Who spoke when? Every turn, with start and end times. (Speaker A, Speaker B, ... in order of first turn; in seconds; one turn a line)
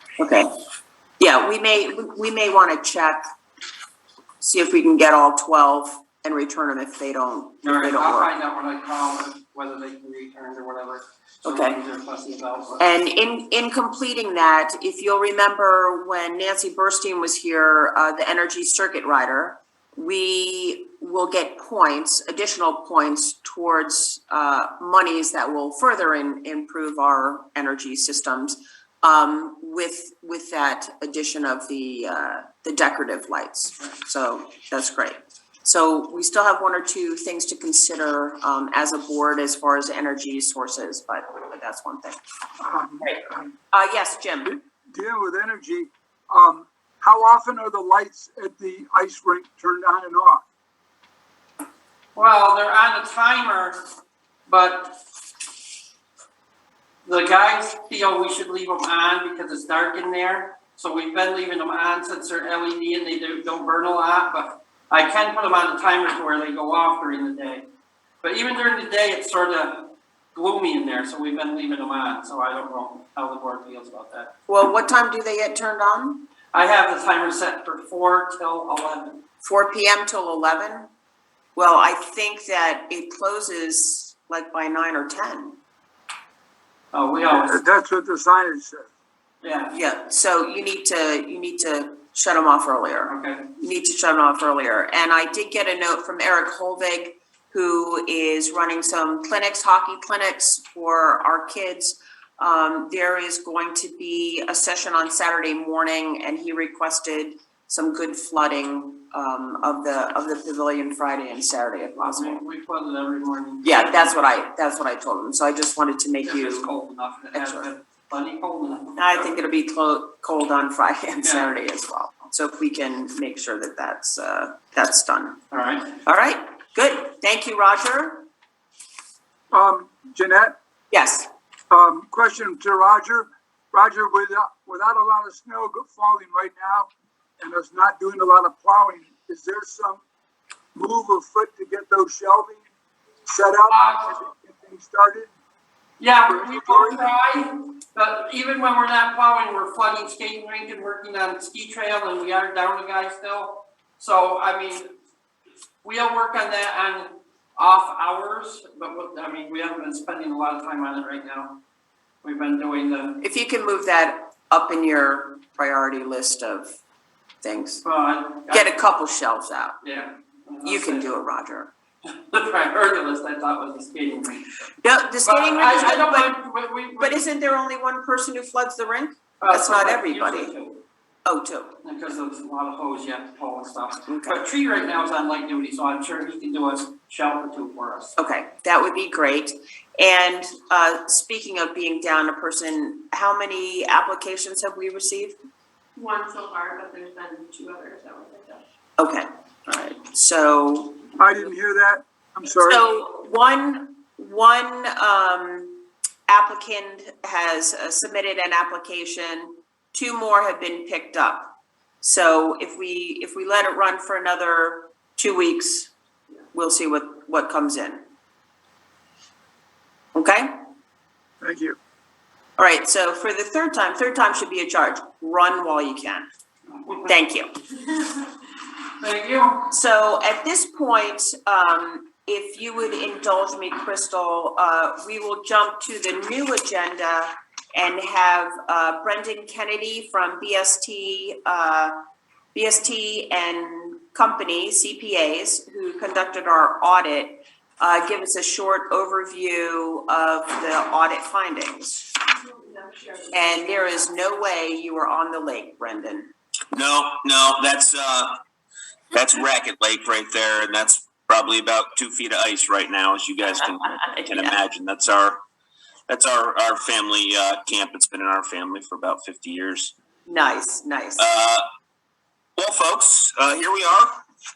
Speaker A: 0.2-0.5
Speaker A: 1.2-3.2
Speaker A: 4.4-8.3
Speaker B: 7.6-12.8
Speaker A: 11.4-11.8
Speaker A: 12.8-42.2
Speaker C: 42.6-43.5
Speaker A: 43.0-44.5
Speaker C: 44.4-50.4
Speaker B: 52.1-53.8
Speaker B: 54.5-54.9
Speaker B: 57.0-67.6
Speaker B: 68.2-74.3
Speaker A: 74.5-76.3
Speaker B: 76.5-79.2
Speaker A: 79.4-80.9
Speaker A: 81.5-85.6
Speaker B: 86.9-87.6
Speaker C: 87.3-88.9
Speaker B: 89.4-89.7
Speaker A: 89.7-112.4
Speaker B: 93.1-93.4
Speaker B: 112.0-114.2
Speaker A: 113.6-116.7
Speaker B: 116.2-119.3
Speaker A: 117.3-117.7
Speaker A: 119.0-125.4
Speaker B: 121.2-121.5
Speaker B: 125.5-125.9
Speaker A: 126.0-128.2
Speaker C: 129.5-130.5
Speaker A: 130.9-131.3
Speaker C: 131.7-136.9
Speaker C: 137.4-140.0
Speaker C: 140.7-142.6
Speaker C: 143.2-145.3
Speaker B: 143.7-144.1
Speaker B: 146.0-154.9
Speaker C: 146.3-147.1
Speaker B: 155.8-161.6
Speaker B: 162.2-163.2
Speaker A: 163.2-166.7
Speaker A: 167.4-167.8
Speaker B: 167.8-168.8
Speaker A: 168.5-169.7
Speaker B: 169.8-171.1
Speaker A: 170.6-171.7
Speaker B: 172.0-174.7
Speaker A: 174.8-176.4
Speaker B: 175.2-177.2
Speaker A: 177.0-180.5
Speaker B: 179.4-180.8
Speaker A: 181.2-181.8
Speaker B: 181.8-188.1
Speaker A: 184.1-184.4
Speaker A: 188.2-195.3
Speaker D: 195.9-198.6
Speaker A: 199.0-201.0
Speaker C: 201.2-202.9
Speaker A: 202.6-215.9
Speaker A: 216.5-218.0
Speaker A: 220.1-220.5
Speaker C: 221.4-221.8
Speaker A: 222.6-226.2
Speaker A: 227.1-227.5
Speaker B: 229.0-229.7
Speaker A: 229.7-241.9
Speaker A: 242.5-252.1
Speaker D: 252.3-254.0
Speaker A: 253.3-256.3
Speaker E: 256.7-258.3
Speaker E: 259.1-265.4
Speaker E: 266.1-269.9
Speaker A: 270.3-271.2
Speaker E: 271.2-271.6
Speaker E: 272.6-274.1